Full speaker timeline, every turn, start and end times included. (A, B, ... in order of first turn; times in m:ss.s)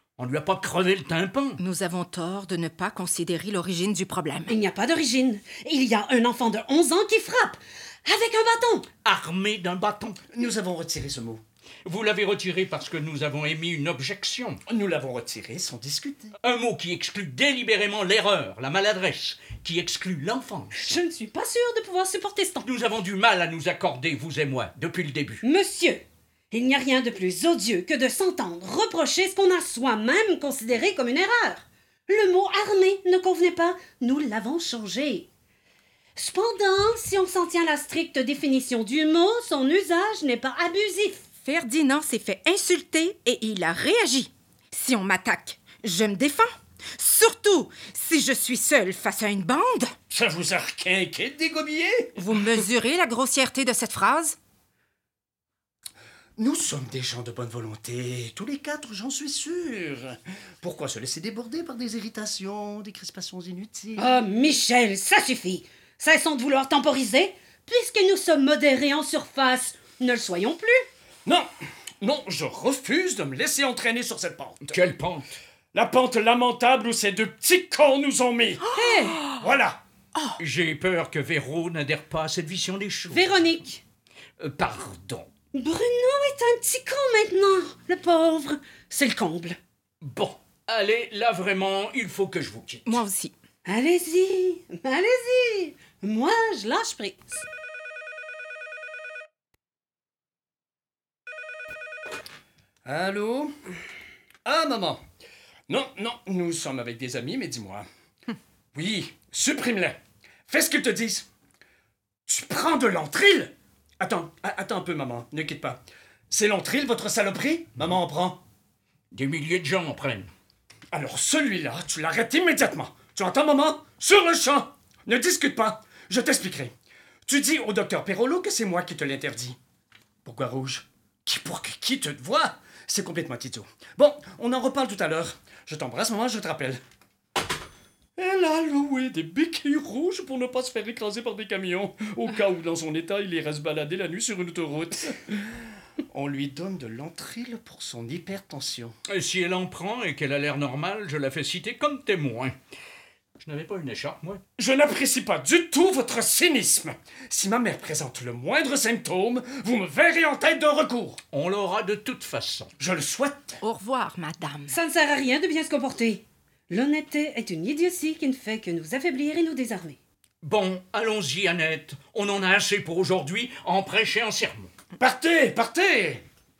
0:00.2-0:01.6 A
0:01.6-0:04.5 B
0:04.5-0:08.9 C
0:09.0-0:10.2 A
0:10.3-0:11.4 D
0:11.8-0:14.6 A
0:14.7-0:16.3 D
0:16.4-0:21.0 A
0:20.7-0:22.7 C
0:22.6-0:25.4 A
0:25.4-0:35.3 C
0:36.2-0:41.2 C
0:41.4-0:49.9 B
0:50.1-0:52.3 D
0:52.2-0:54.4 B
0:56.4-1:04.2 D
1:04.0-1:10.8 C
1:12.0-1:14.8 D
1:14.7-1:15.4 A
1:15.7-1:18.6 D
1:18.6-1:19.4 B
1:18.7-1:19.2 C
1:19.4-1:19.8 D
1:20.1-1:20.4 B
1:20.4-1:23.6 A
1:23.1-1:23.8 C
1:24.4-1:25.3 A
1:25.5-1:29.6 C
1:30.0-1:33.0 A
1:32.9-1:33.3 B
1:33.6-1:37.4 C
1:42.8-1:43.5 D
1:44.4-1:45.0 D
1:45.7-1:47.8 D
1:48.7-1:51.3 D
1:52.2-1:58.4 D
1:59.1-2:00.3 A
2:00.9-2:06.7 D
2:07.2-2:09.6 D
2:10.2-2:16.8 D
2:18.2-2:25.5 D
2:26.1-2:29.0 D
2:29.1-2:32.5 A
2:33.4-2:34.4 A
2:34.6-2:41.2 D
2:41.3-2:42.7 A
2:42.8-2:43.6 D
2:43.6-2:44.7 B
2:44.7-2:50.0 C
2:50.4-2:54.7 A
2:55.0-2:56.2 D